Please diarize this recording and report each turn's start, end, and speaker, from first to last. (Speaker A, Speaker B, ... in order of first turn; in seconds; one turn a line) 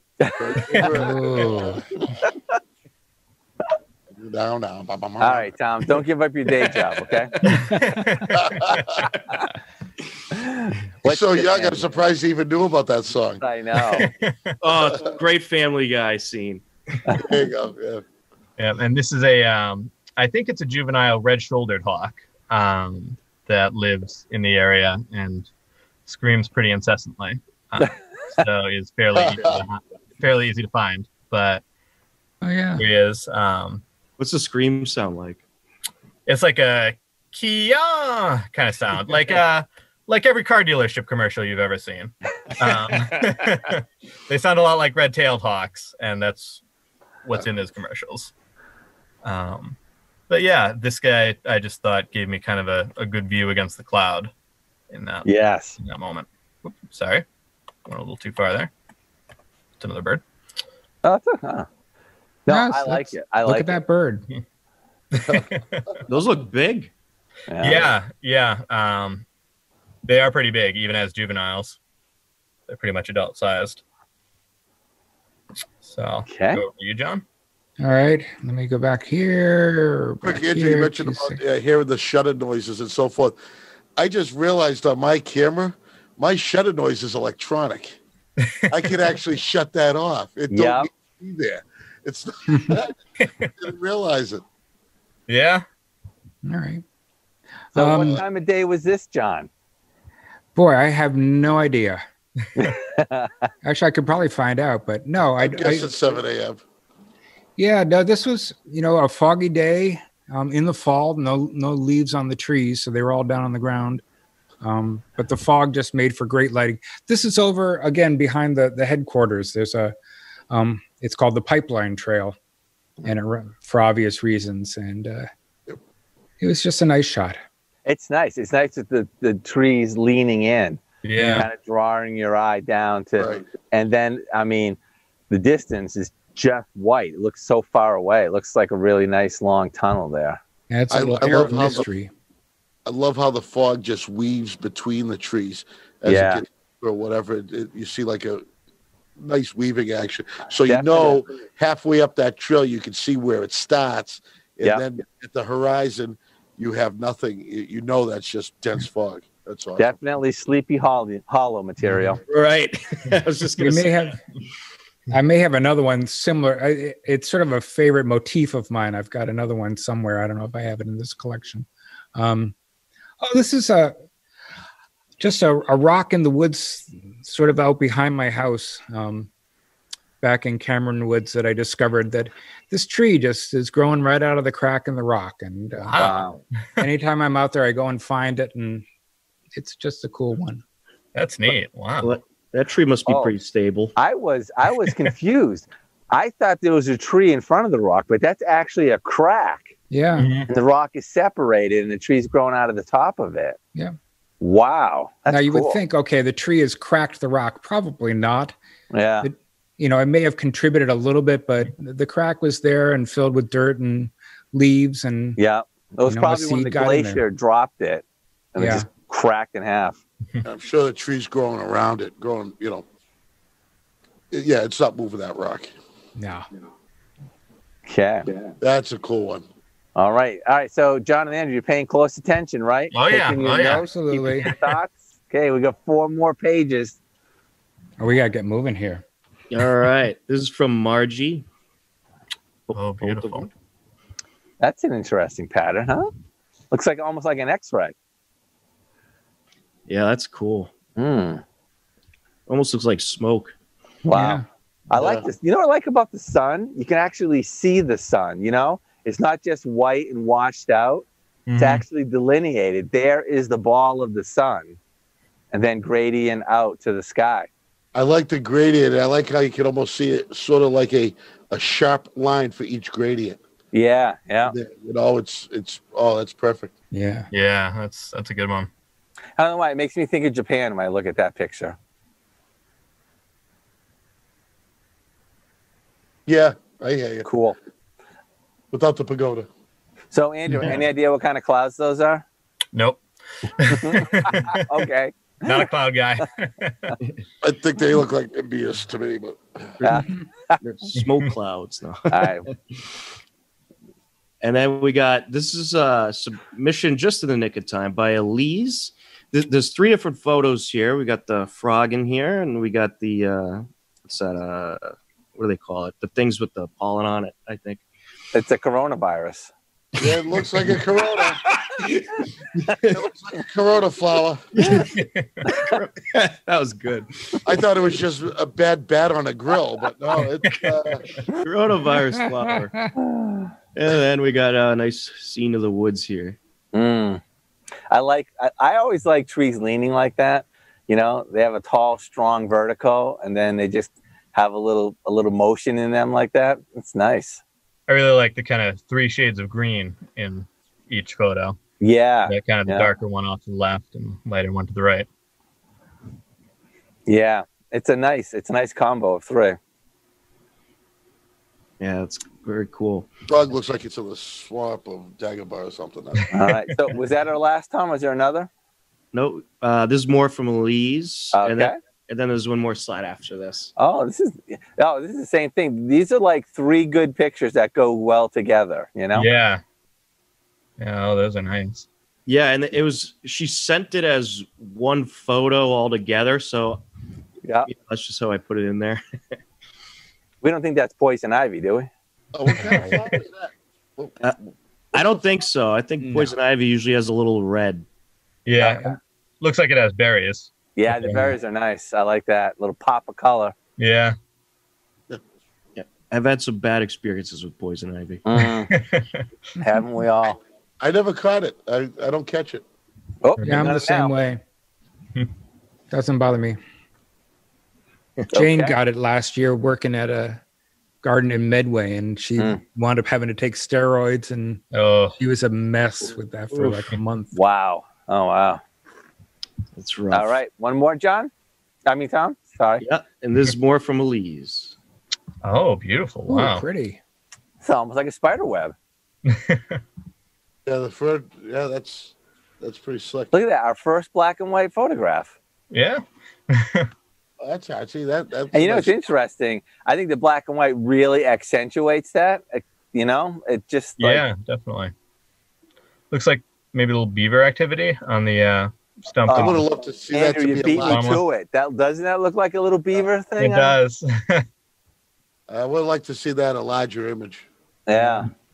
Speaker A: 0.2-0.9
Speaker B: 0.4-1.9
Speaker C: 0.9-1.8
Speaker B: 4.2-5.5
Speaker A: 5.2-7.4
Speaker D: 7.5-9.1
Speaker C: 7.5-8.1
Speaker B: 8.3-9.1
Speaker A: 10.3-12.0
Speaker B: 11.1-13.4
Speaker A: 13.4-14.1
Speaker D: 14.0-14.6
Speaker E: 14.6-16.6
Speaker B: 14.7-15.1
Speaker B: 17.1-18.0
Speaker D: 18.6-25.5
Speaker D: 26.1-31.6
Speaker B: 29.2-29.6
Speaker C: 32.4-32.9
Speaker D: 32.8-33.8
Speaker E: 34.2-35.4
Speaker D: 36.3-46.6
Speaker E: 42.9-43.3
Speaker D: 47.2-48.3
Speaker D: 49.2-49.8
Speaker D: 50.3-54.3
Speaker D: 54.9-57.2
Speaker A: 55.2-55.8
Speaker D: 57.9-58.7
Speaker D: 59.8-60.2
Speaker A: 61.0-61.7
Speaker A: 62.5-63.8
Speaker C: 62.5-64.3
Speaker D: 65.1-65.9
Speaker E: 66.1-66.9
Speaker A: 67.5-67.9
Speaker D: 67.6-69.2
Speaker D: 70.1-71.8
Speaker D: 72.7-73.8
Speaker D: 75.8-77.2
Speaker A: 76.3-76.6
Speaker C: 77.8-81.4
Speaker B: 80.2-83.4
Speaker B: 84.0-88.0
Speaker B: 88.7-94.4
Speaker A: 90.5-90.9
Speaker C: 92.5-92.8
Speaker D: 93.2-93.5
Speaker D: 95.3-95.6
Speaker C: 96.5-96.8
Speaker C: 97.7-98.2
Speaker A: 97.8-99.5
Speaker C: 100.5-102.0
Speaker A: 102.5-103.3
Speaker C: 103.6-106.0
Speaker B: 105.4-106.6
Speaker C: 107.6-114.0
Speaker C: 114.6-119.9
Speaker C: 120.5-122.4
Speaker C: 123.0-125.3
Speaker C: 126.4-127.4
Speaker A: 127.9-130.8
Speaker D: 131.0-131.5
Speaker C: 131.2-131.5
Speaker A: 131.4-134.8
Speaker A: 135.3-140.4
Speaker C: 140.7-142.1
Speaker B: 140.9-141.9
Speaker B: 142.9-148.4
Speaker A: 146.1-146.4
Speaker B: 149.2-159.9
Speaker A: 150.7-151.2
Speaker A: 159.8-162.2
Speaker E: 162.3-164.1
Speaker C: 163.6-164.2
Speaker C: 165.1-172.6
Speaker C: 173.2-174.0
Speaker C: 175.2-179.3
Speaker C: 180.2-186.1
Speaker D: 185.8-186.9
Speaker A: 186.0-186.4
Speaker C: 186.8-188.8
Speaker C: 189.5-190.6
Speaker D: 191.2-192.2
Speaker E: 192.0-193.9
Speaker A: 193.1-193.3
Speaker A: 194.0-199.7
Speaker C: 199.9-200.3
Speaker D: 200.2-200.5
Speaker A: 200.5-203.6
Speaker A: 204.4-205.8
Speaker C: 205.3-208.6
Speaker A: 208.9-209.3
Speaker C: 209.2-215.4
Speaker A: 215.4-220.0
Speaker C: 216.1-217.2
Speaker C: 218.6-218.9
Speaker B: 220.4-222.8
Speaker B: 224.3-225.7
Speaker C: 226.2-226.5
Speaker A: 227.9-228.3
Speaker B: 228.6-229.4
Speaker A: 230.0-237.0
Speaker D: 232.9-233.8
Speaker C: 233.6-234.5
Speaker D: 234.4-234.7
Speaker C: 238.0-239.0
Speaker E: 239.5-241.4
Speaker E: 242.7-243.5
Speaker D: 242.7-243.5
Speaker A: 244.6-246.1
Speaker A: 246.7-247.9
Speaker E: 249.9-250.7
Speaker A: 251.0-251.4
Speaker E: 252.5-253.5
Speaker A: 254.1-261.1
Speaker C: 254.1-254.4
Speaker B: 255.0-255.2
Speaker D: 261.5-261.8
Speaker A: 261.6-264.8
Speaker A: 265.5-267.5
Speaker B: 267.9-273.4
Speaker A: 273.7-274.5
Speaker B: 274.4-276.7
Speaker C: 276.9-277.3
Speaker D: 277.3-278.7
Speaker A: 279.4-281.8
Speaker B: 286.3-287.3
Speaker A: 287.2-287.6
Speaker B: 288.7-289.5
Speaker A: 290.1-292.2
Speaker D: 292.7-294.6
Speaker A: 293.7-295.7
Speaker D: 295.4-296.9
Speaker B: 297.4-299.8
Speaker E: 299.8-303.0
Speaker A: 299.8-300.6
Speaker D: 301.0-301.3
Speaker A: 302.1-302.5
Speaker E: 304.4-317.8
Speaker A: 318.3-319.5
Speaker B: 320.0-321.4
Speaker E: 321.8-322.0
Speaker E: 322.6-323.0
Speaker B: 322.9-324.5
Speaker E: 324.5-325.0
Speaker D: 324.6-325.3
Speaker E: 325.5-327.6
Speaker B: 327.4-331.2
Speaker E: 331.3-332.9
Speaker C: 332.1-332.9
Speaker A: 333.0-333.5
Speaker E: 333.8-336.4
Speaker A: 336.7-337.2
Speaker A: 337.9-347.4
Speaker D: 347.9-351.6
Speaker A: 351.8-352.9
Speaker D: 352.3-355.1
Speaker A: 357.1-359.6
Speaker E: 361.8-363.1
Speaker B: 363.3-366.3
Speaker A: 366.3-368.5
Speaker E: 369.1-373.7
Speaker A: 371.3-371.8
Speaker A: 373.8-379.3
Speaker D: 379.1-379.6
Speaker D: 380.8-381.9
Speaker E: 382.3-386.8
Speaker E: 387.7-389.0
Speaker A: 390.4-391.9
Speaker B: 392.3-394.2
Speaker E: 394.9-397.9
Speaker D: 398.5-401.3
Speaker C: 398.6-399.0
Speaker A: 400.8-403.6
Speaker D: 403.8-404.2
Speaker E: 405.8-408.2
Speaker A: 408.2-408.7
Speaker D: 408.7-409.2
Speaker A: 409.6-410.4
Speaker B: 410.8-412.6
Speaker A: 413.2-414.1
Speaker C: 413.4-414.4
Speaker C: 415.9-416.6
Speaker A: 418.3-418.8
Speaker C: 418.3-420.4
Speaker C: 421.0-424.6
Speaker D: 424.7-425.2
Speaker C: 425.2-427.3
Speaker E: 426.5-426.9
Speaker A: 427.3-428.6
Speaker E: 429.8-430.4
Speaker A: 430.1-431.3
Speaker A: 431.9-432.8
Speaker E: 432.8-434.8
Speaker D: 435.4-436.6
Speaker C: 436.3-437.0
Speaker A: 437.6-438.7
Speaker D: 439.3-439.8
Speaker B: 440.7-443.3
Speaker A: 443.3-445.3
Speaker D: 445.7-446.9
Speaker B: 447.4-448.9
Speaker A: 448.5-454.2
Speaker D: 454.0-454.9
Speaker D: 456.1-459.6
Speaker A: 459.3-463.8
Speaker B: 459.3-461.1
Speaker D: 460.8-461.2
Speaker D: 463.4-464.4
Speaker B: 465.5-467.5
Speaker A: 467.9-468.3